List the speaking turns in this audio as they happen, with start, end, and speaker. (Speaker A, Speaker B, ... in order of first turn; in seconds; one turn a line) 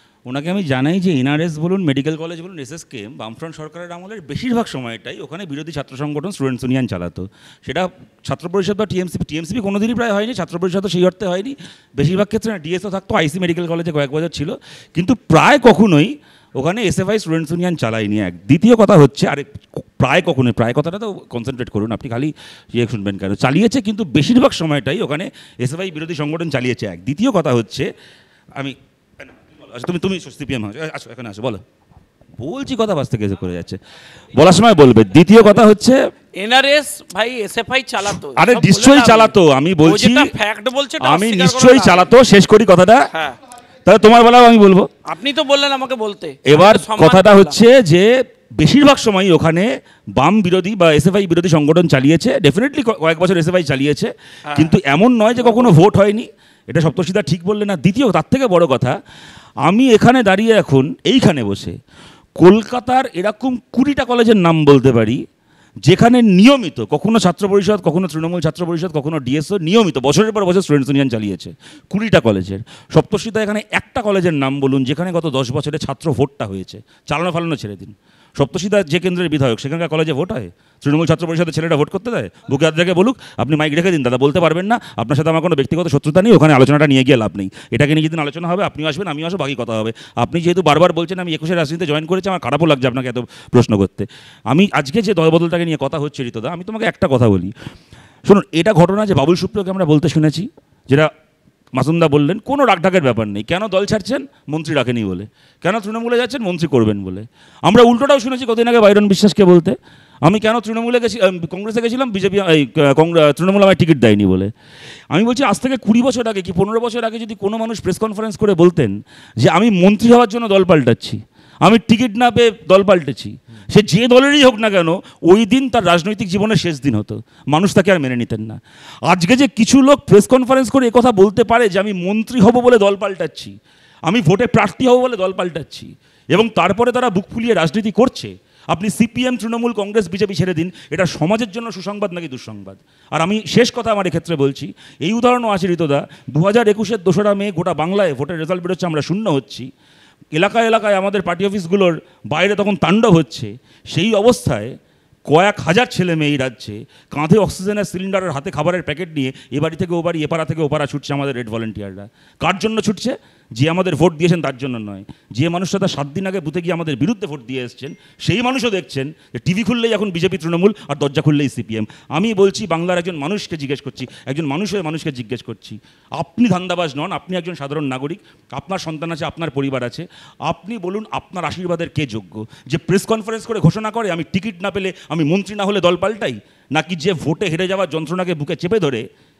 Speaker A: 0.3-27.9
Speaker A: 28.6-31.6
Speaker A: 32.4-33.8
Speaker A: 34.3-36.0
Speaker B: 36.4-42.1
Speaker A: 38.0-40.3
Speaker A: 41.0-43.0
Speaker B: 43.1-43.4
Speaker A: 43.9-44.9
Speaker B: 45.1-47.6
Speaker A: 46.5-59.0
Speaker B: 54.5-54.8
Speaker B: 55.4-55.7
Speaker A: 59.7-61.7
Speaker A: 62.4-65.2
Speaker A: 65.8-97.5
Speaker A: 98.2-101.1
Speaker A: 101.8-114.5
Speaker A: 115.1-133.5
Speaker A: 134.1-149.7
Speaker A: 150.3-154.7
Speaker A: 155.3-189.0